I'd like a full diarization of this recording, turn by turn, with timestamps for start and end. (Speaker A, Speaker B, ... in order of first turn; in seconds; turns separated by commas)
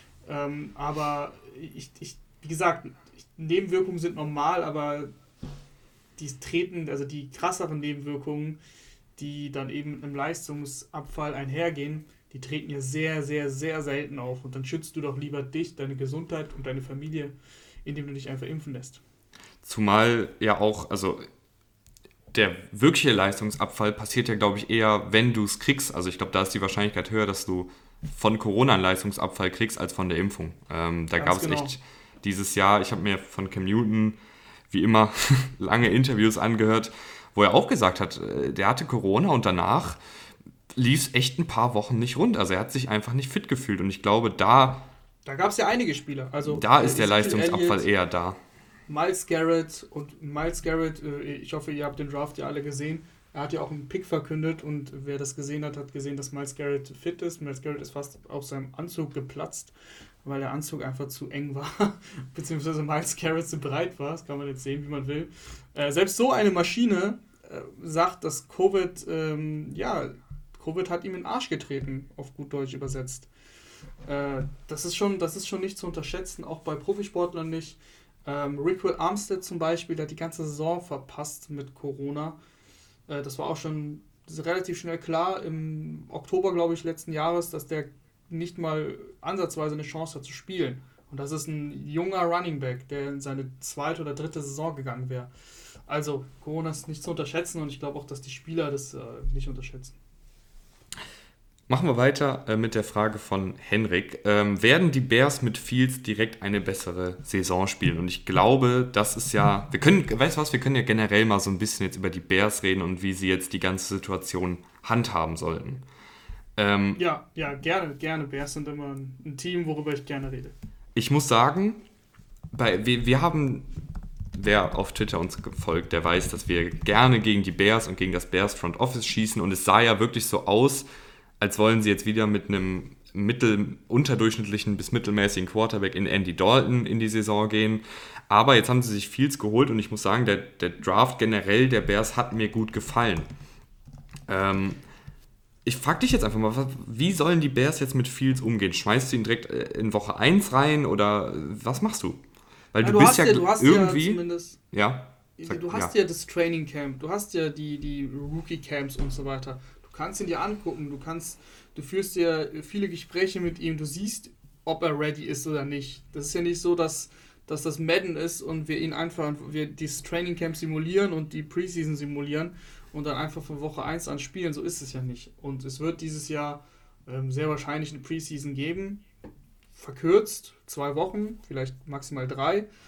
Speaker A: 0.2-5.1, Speaker A: 6.2-8.6, Speaker A: 9.2-19.0, Speaker B: 19.6-21.2, Speaker B: 22.3-34.2, Speaker A: 31.2-31.7, Speaker B: 34.7-40.0, Speaker B: 40.7-44.9, Speaker A: 45.2-47.9, Speaker B: 46.5-48.4, Speaker A: 48.9-59.7, Speaker A: 60.2-73.3, Speaker A: 74.0-82.4, Speaker A: 83.1-95.3, Speaker A: 95.9-99.9, Speaker B: 101.7-115.8, Speaker B: 116.6-117.0, Speaker A: 117.0-120.5, Speaker B: 120.9-121.8, Speaker B: 122.5-123.7, Speaker B: 124.3-130.9, Speaker B: 131.4-143.3, Speaker B: 144.3-144.8, Speaker B: 145.6-152.2, Speaker B: 152.7-155.9, Speaker A: 152.8-154.6, Speaker A: 155.4-179.0, Speaker A: 179.7-182.7